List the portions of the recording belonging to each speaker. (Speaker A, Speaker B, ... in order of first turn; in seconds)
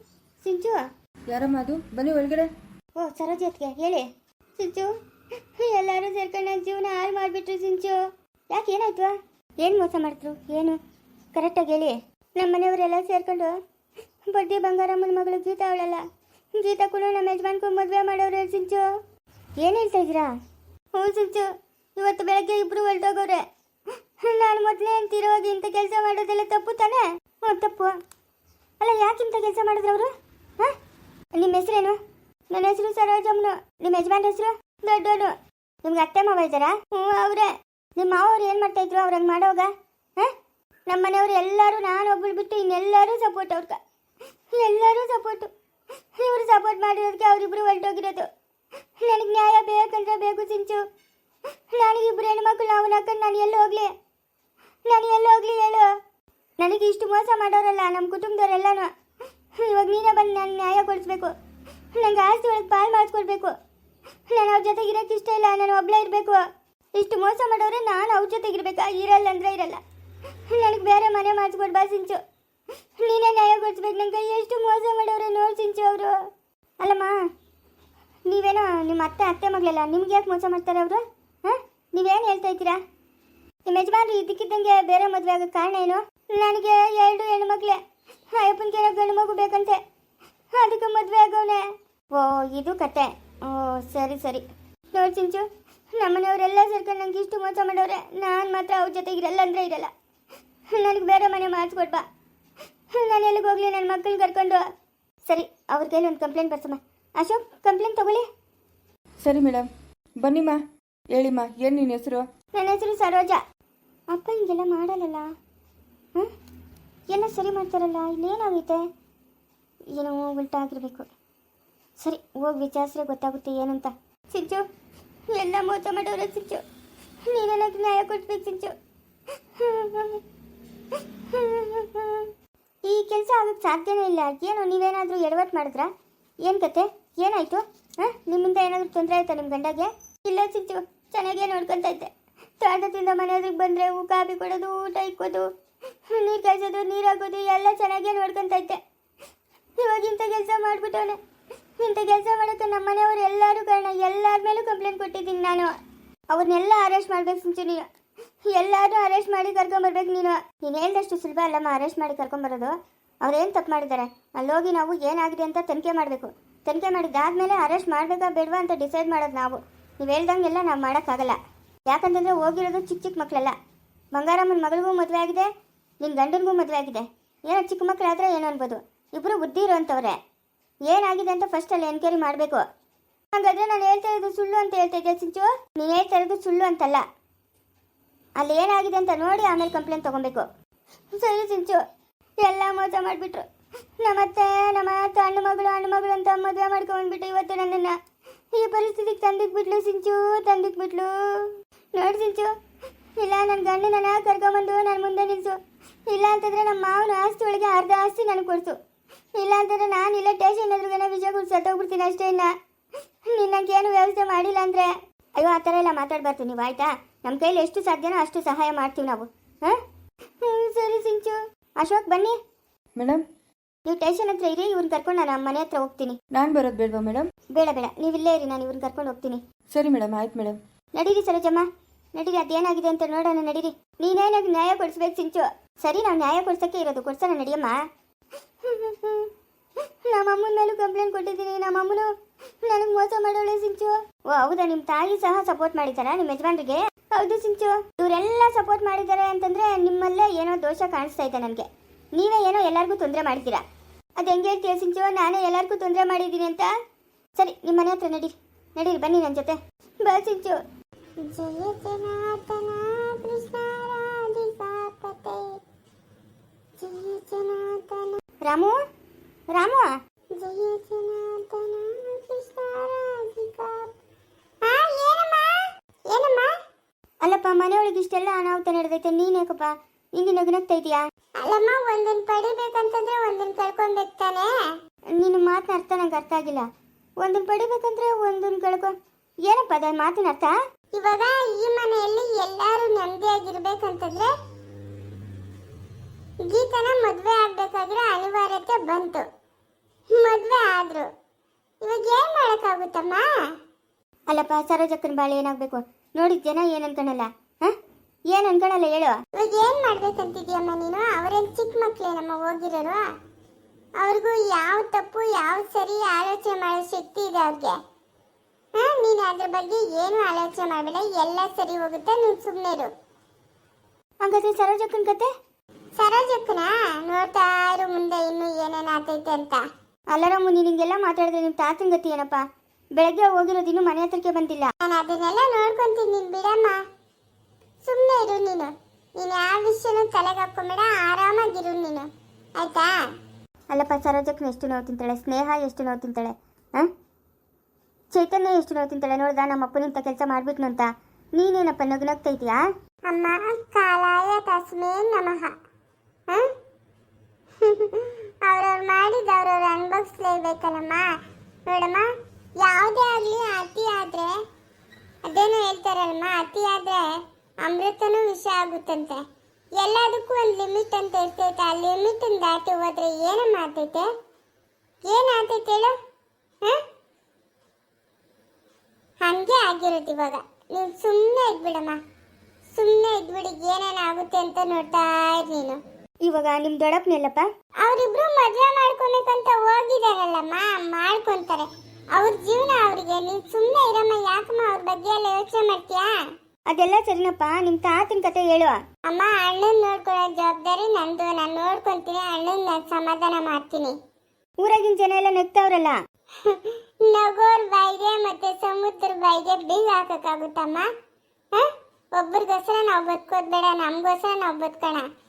Speaker A: 0.4-0.8, 3.0-4.1, 4.6-4.9, 5.6-8.0, 8.5-10.8, 11.3-13.5, 14.3-16.0, 16.6-18.8, 19.6-20.3, 21.0-23.4, 24.2-27.9, 28.8-30.1, 31.4-32.0, 32.5-35.3, 35.9-40.3, 40.9-43.8, 44.6-45.5, 46.2-48.3, 49.0-50.8, 51.7-53.9, 54.9-55.9, 56.6-58.9, 59.6-61.3, 62.0-63.5, 64.3-66.4, 67.0-69.8, 70.5-72.2, 73.0-76.1, 76.8-77.2, 78.3-82.8, 83.7-87.8, 88.4-89.8, 90.6-91.6, 92.1-95.5, 96.0-99.9, 100.8-102.0, 103.0-104.6, 105.3-108.2, 112.6-113.4, 114.1-115.3, 117.1-118.8, 120.0-121.1, 122.0-124.6, 125.3-126.6, 127.3-128.7, 129.6-130.2, 131.0-132.3, 132.9-135.9, 136.5-142.1, 142.6-145.5, 146.1-148.8, 149.8-151.2, 151.8-155.7, 156.3-157.9, 158.5-162.7, 163.2-171.4, 171.9-173.5, 174.1-175.5, 176.0-180.2, 180.9-182.6, 183.3-187.0, 188.4-190.5, 191.2-191.8, 192.4-193.4, 194.0-197.9, 198.5-202.5, 203.2-205.6, 206.1-208.8, 209.4-212.5, 213.3-219.8, 220.4-222.4, 223.9-226.2, 227.6-229.4, 231.0-237.7, 238.6-239.3, 240.1-242.1, 242.7-253.6, 254.2-256.7, 257.4-260.6, 268.4-268.8, 269.6-269.9, 277.2-281.0, 285.1-286.6, 287.2-288.9, 289.5-290.5, 304.3-307.7, 308.3-309.2, 324.2-325.3, 330.1-332.4, 333.0-334.7, 343.7-346.9, 348.1-352.6, 386.3-387.5, 396.7-398.8, 404.6-406.0
Speaker B: 1.3-2.5, 109.2-112.3, 223.0-223.2, 226.3-227.3, 229.7-230.6
Speaker C: 261.2-265.6, 266.8-268.2, 270.4-273.9, 274.6-275.6, 276.1-276.5, 281.4-284.5, 290.9-294.3, 296.4-299.3, 300.1-301.1, 301.8-303.2, 309.4-313.0, 314.0-317.8, 318.8-322.9, 326.0-329.6, 334.8-336.8, 337.8-343.0, 353.1-355.5, 356.3-356.5, 357.6-361.1, 361.7-362.1, 362.6-364.3, 365.3-367.1, 367.6-369.2, 369.8-374.1, 375.0-375.9, 379.2-382.0, 382.7-385.8, 387.8-396.1, 399.1-403.9, 406.4-410.9, 411.5-415.1